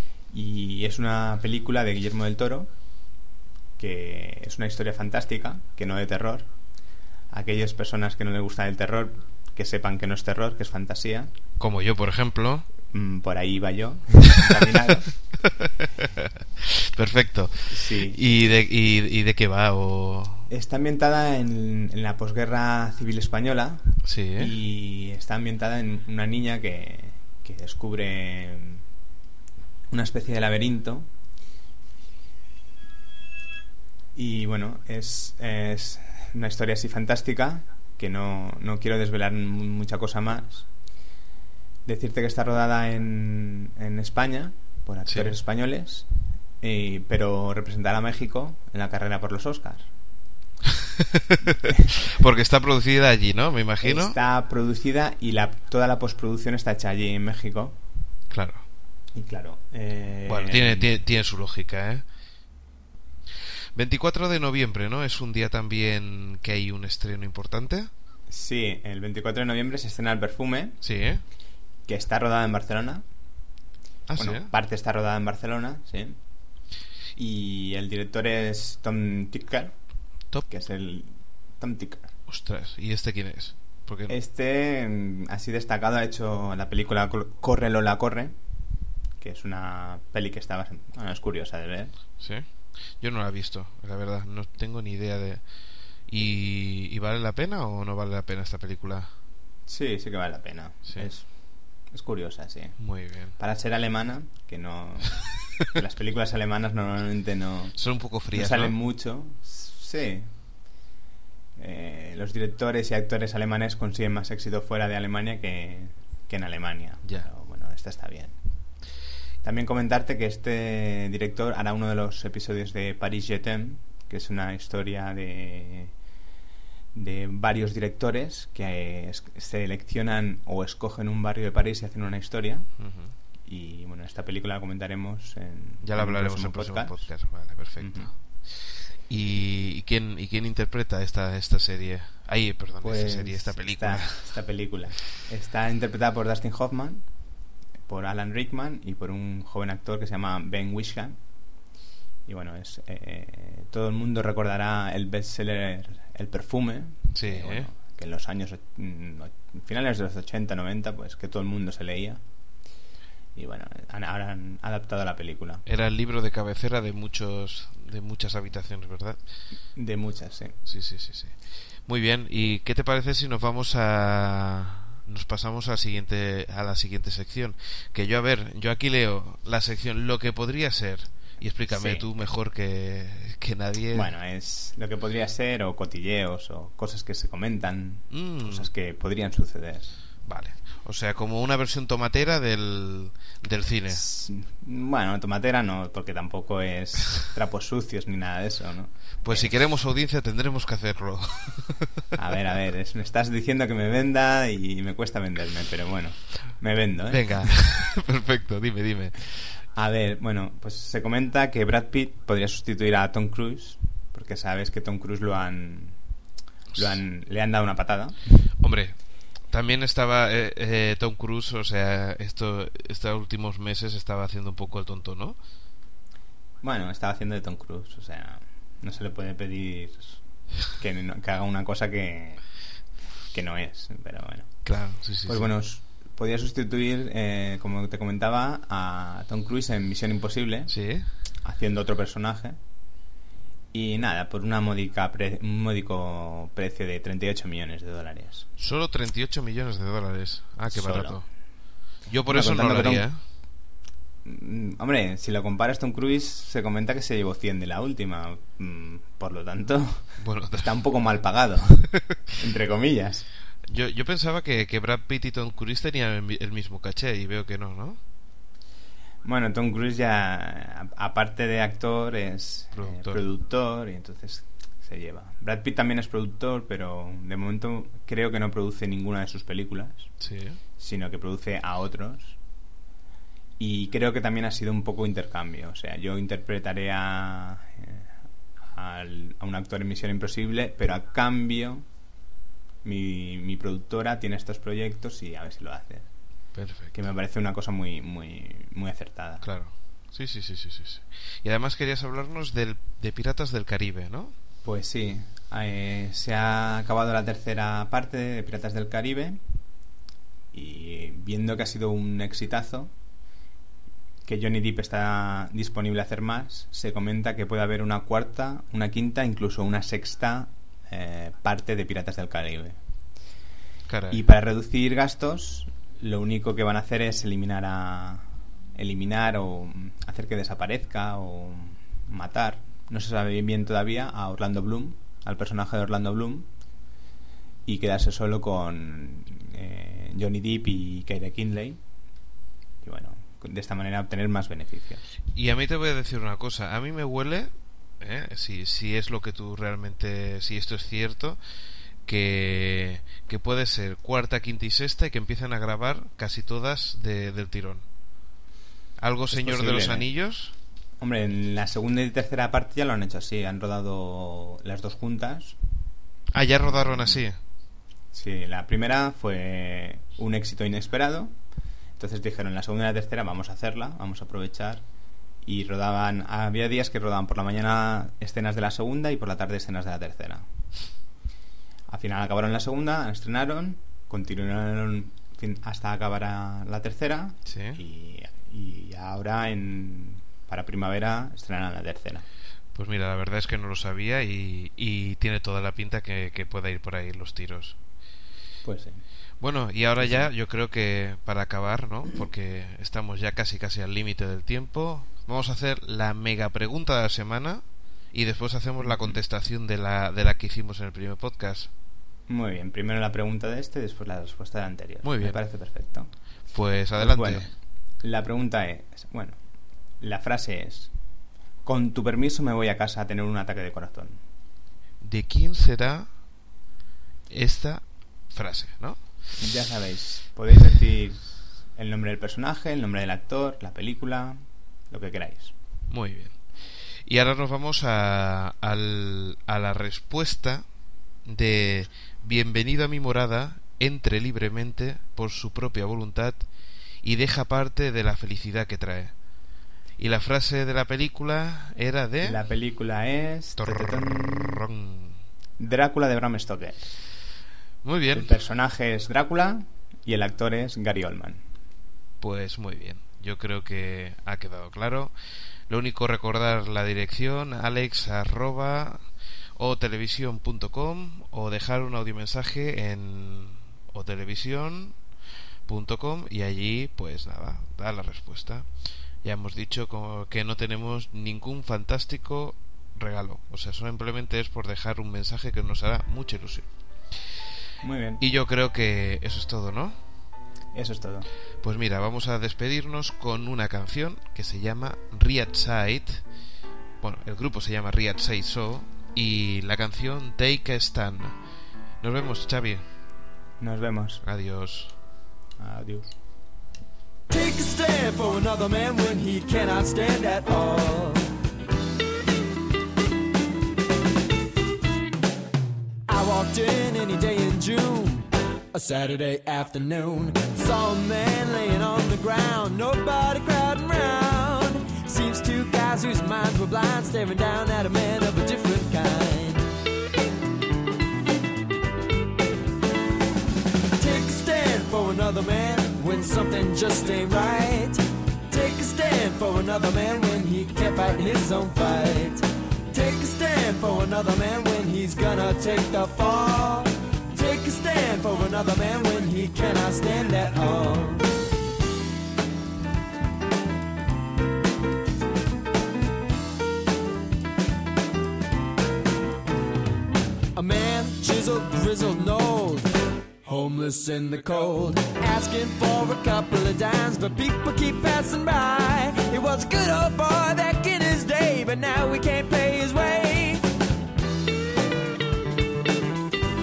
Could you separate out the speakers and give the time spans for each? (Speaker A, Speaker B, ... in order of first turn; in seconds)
Speaker A: 0.3-2.7, 3.8-6.5, 7.3-11.3, 12.9-15.1, 17.7-18.2, 20.5-28.8, 29.9-31.1, 34.1-40.7, 41.9-46.1, 46.6-49.9, 51.6-51.9, 53.8-57.8, 59.1-61.0, 68.3-70.8, 71.9-73.0, 74.2-76.2, 77.2-79.8, 80.5-82.1, 84.1-88.4, 89.2-91.9, 99.7-101.4, 101.9-102.8, 103.4-107.8, 108.3-110.3, 111.6-118.4, 119.4-125.9, 126.9-132.7, 133.4-137.1, 137.8-138.1, 142.8-147.1, 147.9-151.2, 152.2-162.2, 163.3-165.6, 169.8-170.6, 181.7-182.1, 183.9-189.9, 193.9-199.5, 202.2-207.5, 209.8-216.0, 216.8-218.2, 226.6-232.4, 233.3-234.5, 235.2-240.7, 241.4-242.6, 243.7-248.5, 250.7-251.3, 252.3-253.1, 254.2-263.3, 269.2-280.1, 280.8-282.4, 283.6-288.1, 288.7-291.9, 292.8-296.1, 296.9-299.5, 304.6-309.4, 310.5-312.9, 314.2-322.8, 324.1-336.5, 337.6-341.8, 342.8-345.0, 359.3-360.1, 361.0-365.6, 366.8-367.2, 368.1-371.3, 372.0-374.8, 375.4-380.5, 381.9-392.2, 398.6-399.0, 400.0-400.3, 408.8-409.2, 412.3-416.1, 417.0-417.5, 418.0-419.4, 420.0-420.9, 421.6-424.2, 429.4-435.5, 452.2-454.6, 455.6-456.9, 458.1-461.4, 487.8-488.2, 490.7-491.3, 503.6-504.2, 505.6-506.1
Speaker B: 11.6-12.7, 14.5-14.7, 15.4-20.5, 24.0-24.5, 45.1-45.4, 51.0-54.2, 58.3-58.6, 60.3-62.0, 63.8-67.9, 70.8-71.2, 74.1-74.5, 82.3-84.1, 92.2-92.5, 93.0-95.4, 96.1-99.1, 102.8-103.3, 107.8-108.7, 132.8-133.1, 135.8-138.2, 139.1-144.3, 157.1-157.7, 165.7-169.2, 170.7-171.3, 171.9-184.1, 188.1-188.7, 190.2-194.0, 199.2-202.0, 207.1-209.5, 218.6-219.0, 219.5-225.4, 234.6-235.5, 240.7-241.1, 248.6-251.3, 252.1-253.2, 260.2-260.7, 263.6-268.0, 272.8-273.2, 280.2-280.6, 296.6-297.0, 299.4-304.4, 323.9-324.2, 345.3-351.4, 352.1-357.9, 359.0-360.5, 366.3-367.4, 387.5-387.8, 392.7-397.8, 399.4-411.7, 415.0-415.4, 416.5-417.5, 425.0-426.1, 427.3-429.0, 435.9-436.4, 437.1-440.6, 441.2-446.4, 447.0-449.1, 450.0-452.4, 453.6-455.2, 457.8-458.3, 462.2-465.1, 465.7-469.0, 469.6-475.0, 475.7-478.7, 479.2-486.7, 488.2-490.0, 491.6-496.2, 497.0-501.4, 502.0-502.8, 504.2-504.9
Speaker C: 507.3-511.3, 516.1-529.7, 534.0-551.3, 560.5-562.9, 563.5-573.6